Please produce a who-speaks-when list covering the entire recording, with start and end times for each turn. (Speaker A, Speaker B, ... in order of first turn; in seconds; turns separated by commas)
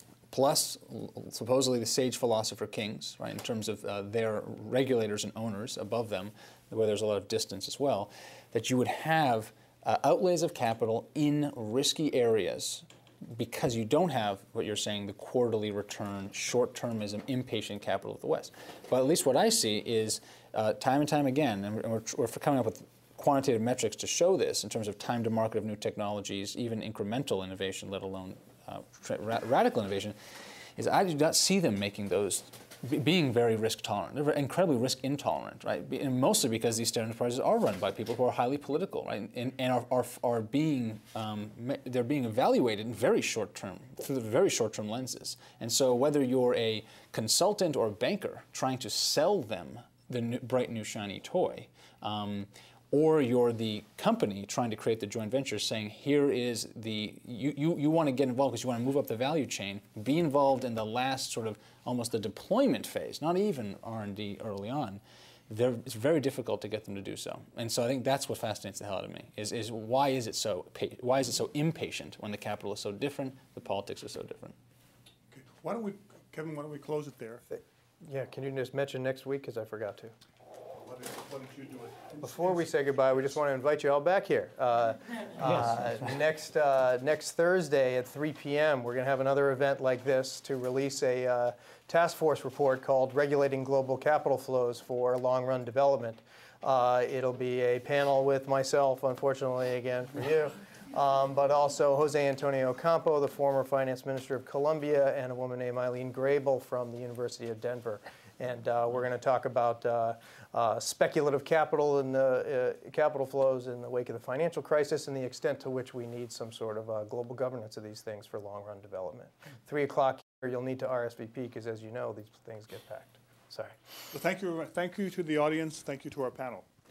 Speaker A: 0.3-30.2, Speaker A: 30.8-74.5, Speaker B: 75.3-77.4, Speaker C: 77.5-80.1, Speaker B: 80.8-82.6, Speaker C: 82.2-123.8, Speaker B: 124.1-126.7